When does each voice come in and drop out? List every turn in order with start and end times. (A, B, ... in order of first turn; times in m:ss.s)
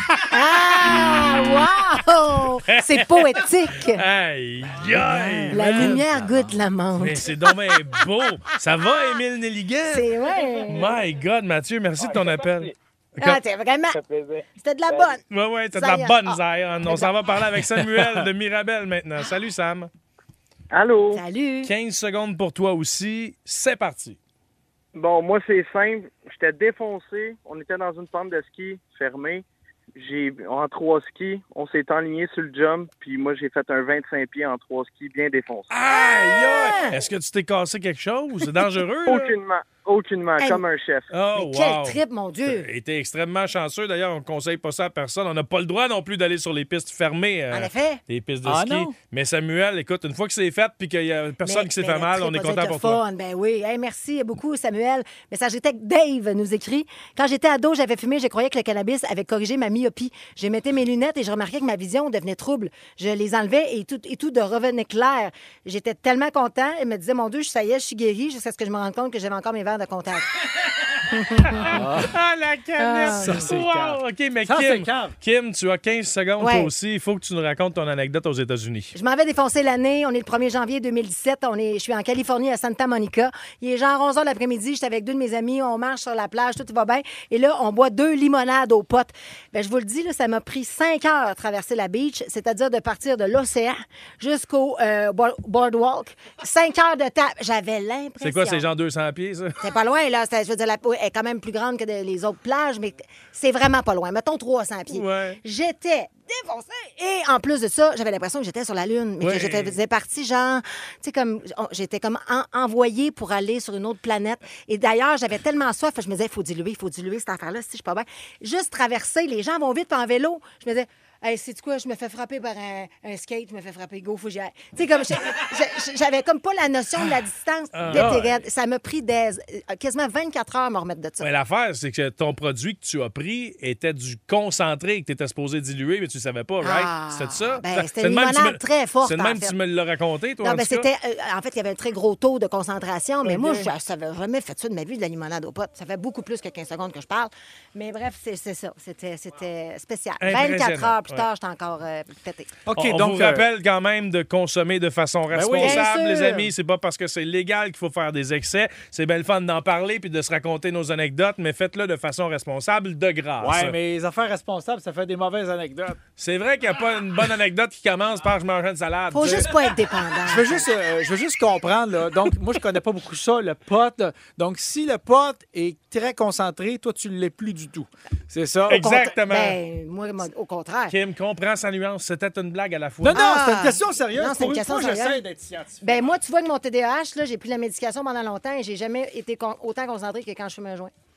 0:00.3-0:04.0 A
0:02.7-0:06.0 B
0:04.9-0:09.2 A
0:05.5-0:06.6 C
0:07.0-0:10.1 B
0:09.8-0:10.9 A
0:10.7-0:13.4 B
0:12.0-0:12.7 D
0:13.2-0:14.0 A
0:13.9-0:15.1 D
0:14.6-0:15.2 A
0:15.3-0:19.9 B
0:15.8-0:17.1 A
0:17.6-0:18.3 C
0:20.8-0:21.1 E
0:20.8-0:21.2 D
0:21.1-0:21.7 A
0:21.6-0:24.2 B
0:25.0-0:29.4 E
0:30.0-0:35.7 E
0:35.7-0:39.4 B
0:35.9-0:37.0 A
0:39.1-0:39.8 D
0:39.1-0:41.1 E
0:40.3-0:40.6 D
0:40.4-0:40.6 A
0:41.1-0:53.0 B
0:41.3-0:42.7 A
0:47.5-0:48.0 A
0:48.4-0:49.0 C
0:51.4-1:10.3 A
1:11.1-1:11.7 A
1:11.5-1:18.9 B
1:11.6-1:12.2 C
1:12.8-1:13.4 A
1:13.0-1:15.2 C
1:16.4-1:16.7 A
1:18.9-1:38.6 A
1:38.2-1:39.6 B
1:39.6-2:11.3 A
1:44.9-1:45.4 B
1:49.2-1:49.8 B
2:07.8-2:08.4 B
2:07.9-2:08.2 C
2:11.2-2:20.9 B
2:16.6-2:19.5 A
2:20.4-2:32.5 A
2:23.2-2:23.7 B
2:30.2-2:31.3 B
2:32.7-2:33.5 C
2:32.8-2:43.8 B
2:35.3-2:36.5 C
2:35.6-2:36.4 A
2:43.4-2:46.0 C
2:46.2-2:49.6 B
2:49.1-2:50.7 A
2:50.2-2:59.1 C
2:58.7-2:59.6 B
2:58.8-3:01.0 A
3:00.9-3:03.2 B
3:03.0-3:06.1 C
3:03.1-3:05.2 A
3:05.8-3:10.9 A